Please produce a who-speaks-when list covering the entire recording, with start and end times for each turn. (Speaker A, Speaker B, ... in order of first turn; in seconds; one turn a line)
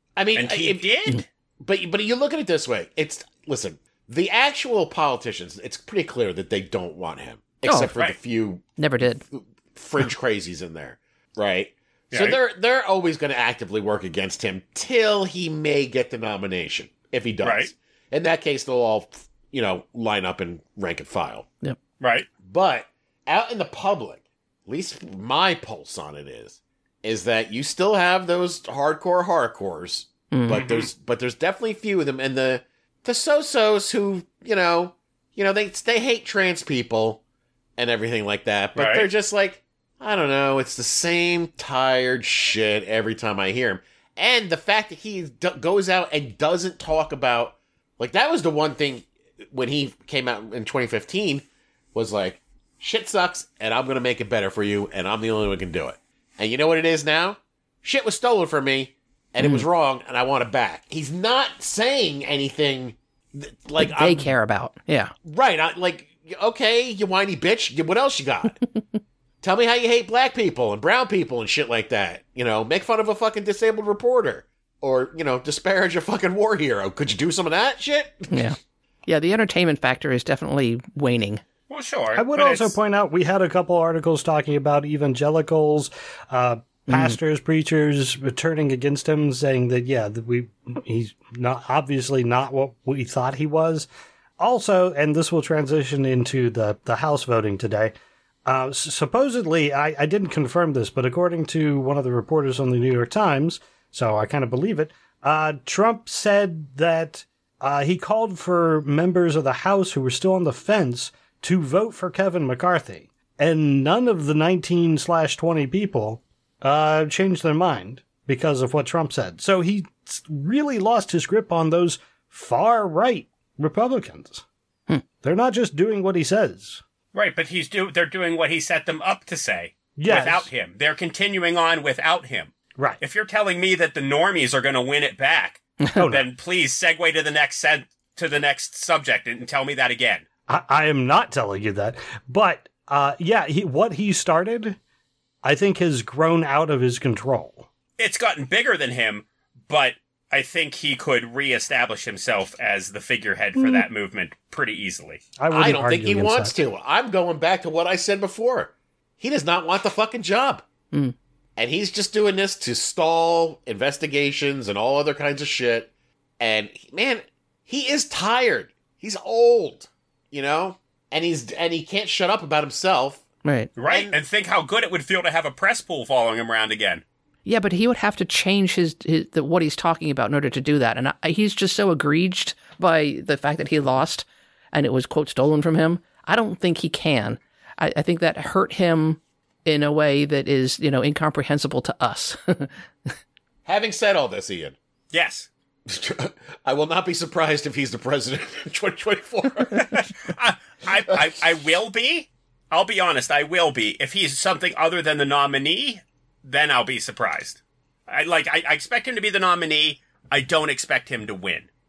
Speaker A: 0.1-0.9
Speaker B: 0.3-1.2
Speaker A: 1.6-8.6
Speaker C: 7.7-7.9
Speaker C: 8.8-9.2
Speaker A: 9.3-21.5
Speaker B: 12.1-12.4
Speaker B: 17.4-17.7
Speaker B: 22.0-22.3
Speaker A: 22.4-37.2
Speaker C: 30.3-30.6
Speaker B: 30.6-30.9
Speaker A: 37.8-64.3
Speaker B: 38.7-39.1
Speaker C: 59.4-59.6
Speaker C: 63.8-65.1
Speaker A: 65.2-68.6
Speaker A: 69.4-78.3
Speaker C: 78.3-81.4
Speaker B: 81.7-82.7
Speaker D: 82.1-93.9
Speaker C: 86.9-87.2
Speaker D: 94.4-97.9
Speaker D: 98.5-124.4
Speaker D: 125.2-126.8
Speaker B: 127.1-140.2
Speaker D: 129.9-130.5
Speaker D: 132.8-133.0
Speaker D: 135.9-136.3
Speaker D: 140.5-144.8
Speaker D: 145.4-147.7
Speaker B: 148.0-155.2
Speaker D: 153.6-153.8
Speaker D: 155.4-156.5
Speaker A: 155.5-160.6
Speaker A: 161.6-173.2
Speaker C: 173.4-173.7
Speaker B: 173.8-177.0
Speaker A: 173.9-174.2
Speaker C: 177.4-192.7
Speaker A: 193.7-194.8
Speaker B: 195.1-195.5
Speaker A: 195.9-200.0
Speaker B: 199.7-211.7